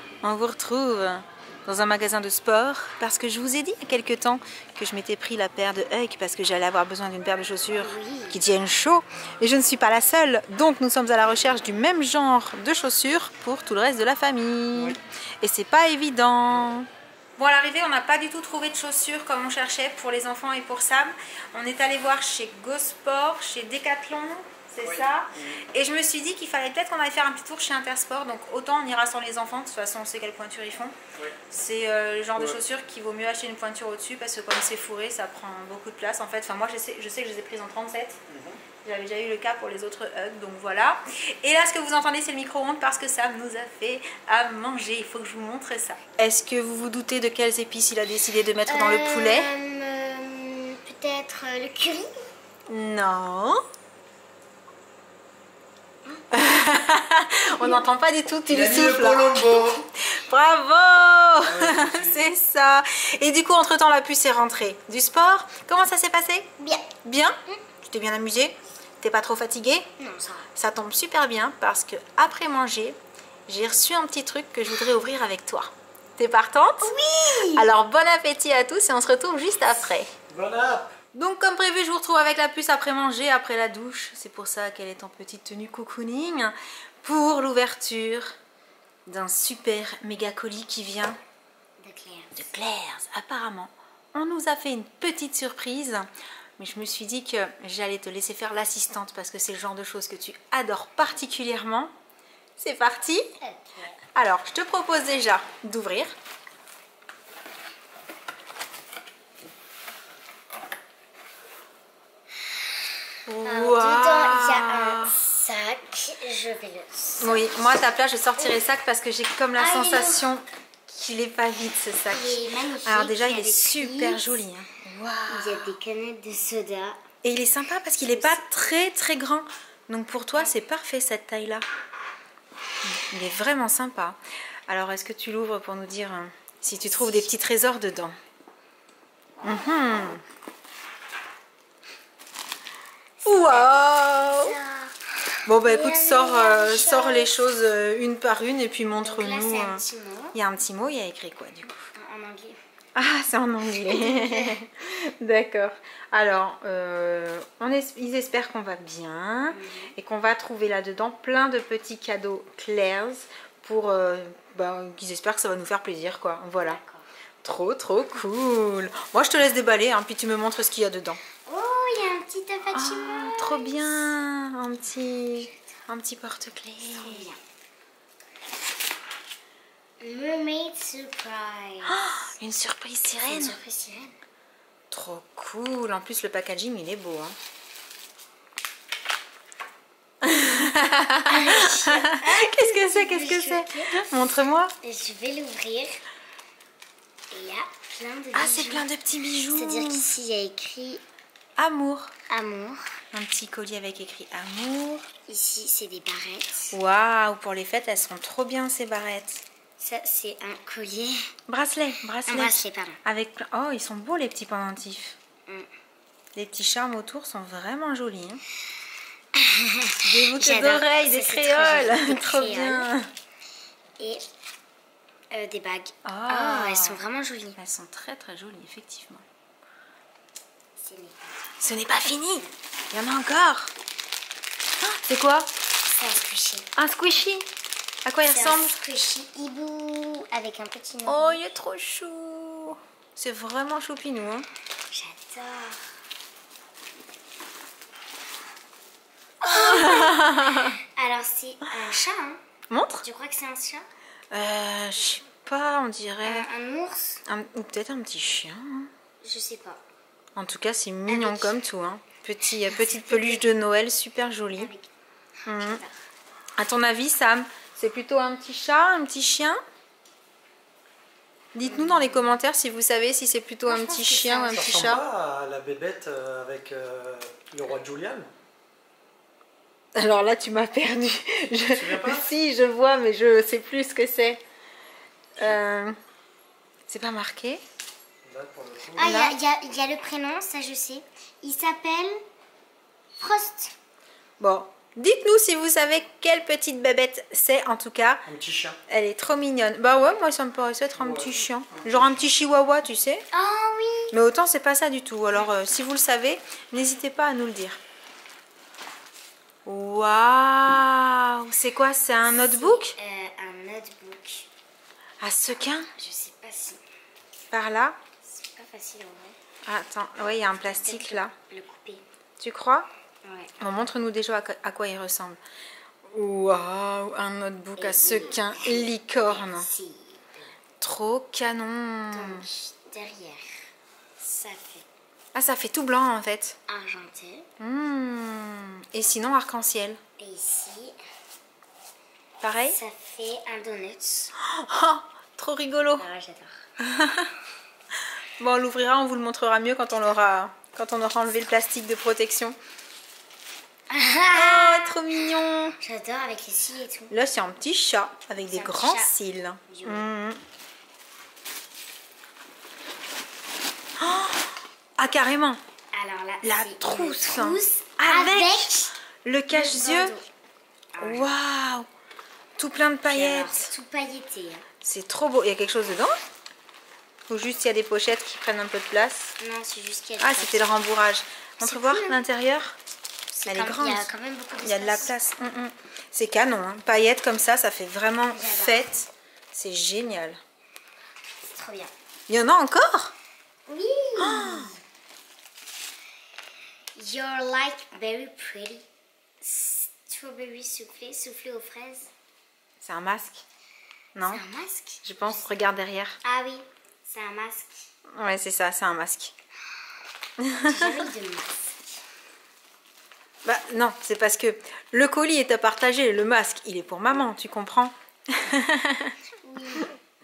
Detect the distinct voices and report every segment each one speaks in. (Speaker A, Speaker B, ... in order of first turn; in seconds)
Speaker A: 0.2-30.9, 31.5-38.2, 38.8-49.5, 52.7-53.6, 56.3-66.5, 67.0-69.9, 70.5-76.9, 77.5-80.1, 81.1-88.3, 89.0-91.2, 92.3-101.9, 102.6-103.2, 104.1-106.1, 113.3-115.2, 117.2-125.7, 127.2-131.6, 132.8-138.1, 139.4-140.2, 143.2-144.6, 145.4-151.9, 152.9-166.8, 167.4-171.2, 172.7-177.3, 181.8-183.6, 184.9-187.3, 190.2-194.7, 198.3-200.1, 201.6-202.1, 203.1-205.0, 206.7-209.4, 211.5-215.2, 216.3-218.4, 220.1-223.1, 226.0-227.0, 227.6-229.2, 231.6-233.7, 234.8-235.5, 236.8-237.5, 238.0-238.8, 241.1-244.4, 249.5-250.7, 252.7-253.0, 254.3-256.5, 257.3-258.9, 260.3-264.7, 265.5-265.8, 266.6-269.6, 271.5-275.0, 279.9-284.4, 285.4-285.9, 286.9-287.6, 289.0-289.4, 294.4-298.2, 298.9-303.2, 304.1-307.8, 309.6-312.9, 315.2-315.9, 317.5-318.0, 319.6-321.3, 322.4-322.9, 323.6-325.4, 326.1-329.7, 330.8-332.5, 335.3-336.6, 337.6-340.0, 342.4-342.8, 344.4-346.1, 346.8-347.3, 348.4-352.6, 354.3-355.8, 357.1-360.4, 364.0-365.6, 366.4-370.2, 371.0-371.9, 372.6-373.7, 374.8-376.1, 377.3-379.3, 380.2-382.8, 383.4-384.1, 384.6-390.4, 392.3-393.1, 394.2-394.7, 402.8-403.4, 404.1-404.4, 405.0-406.2, 408.1-409.3, 410.4-411.1, 413.4-419.1
Speaker B: 7.8-8.4, 48.7-52.1, 57.5-57.8, 66.6-66.9, 70.0-70.5, 76.8-77.7, 91.8-92.4, 103.4-104.0, 113.4-118.6, 119.6-120.3, 122.1-124.4, 125.3-127.0, 128.1-128.4, 136.9-137.3, 143.2-147.4, 149.0-150.4, 151.9-152.6, 153.7-154.6, 159.5-159.9, 166.6-167.1, 171.4-174.2, 176.9-177.4, 180.0-182.1, 183.3-184.2, 191.3-194.1, 194.8-196.0, 197.3-198.9, 199.5-201.0, 202.3-202.8, 205.3-206.8, 209.8-211.3, 212.3-213.0, 219.3-222.9, 225.3-227.6, 230.8-231.4, 235.8-236.7, 238.2-241.4, 244.9-245.8, 249.4-252.4, 253.0-253.8, 256.2-257.2, 259.2-259.8, 261.1-261.6, 262.5-263.4, 264.6-264.9, 265.5-265.9, 271.6-272.3, 273.6-275.0, 288.9-292.2, 293.2-293.7, 303.3-304.1, 312.3-314.5, 315.9-316.8, 318.2-319.4, 320.6-322.0, 323.2-323.6, 327.8-330.6, 332.1-333.5, 334.2-334.9, 336.7-337.5, 340.2-341.0, 342.6-344.3, 346.0-346.6, 353.9-355.0, 355.8-357.1, 358.4-359.1, 359.6-360.1, 365.9-368.9, 369.5-370.3, 370.9-371.3, 373.1-374.6, 379.4-380.8, 381.6-382.2, 383.3-385.1, 388.3-388.9, 391.4-391.9, 393.7-394.8, 396.9-398.8, 399.4-402.1, 404.2-405.6, 406.2-407.9, 410.6-412.0, 419.4-419.9
Speaker C: 24.8-25.6, 38.3-38.6, 58.7-59.6, 61.6-62.0, 80.3-80.9, 274.5-278.3, 281.6-282.3, 288.2-289.1, 298.3-298.8, 301.0-301.3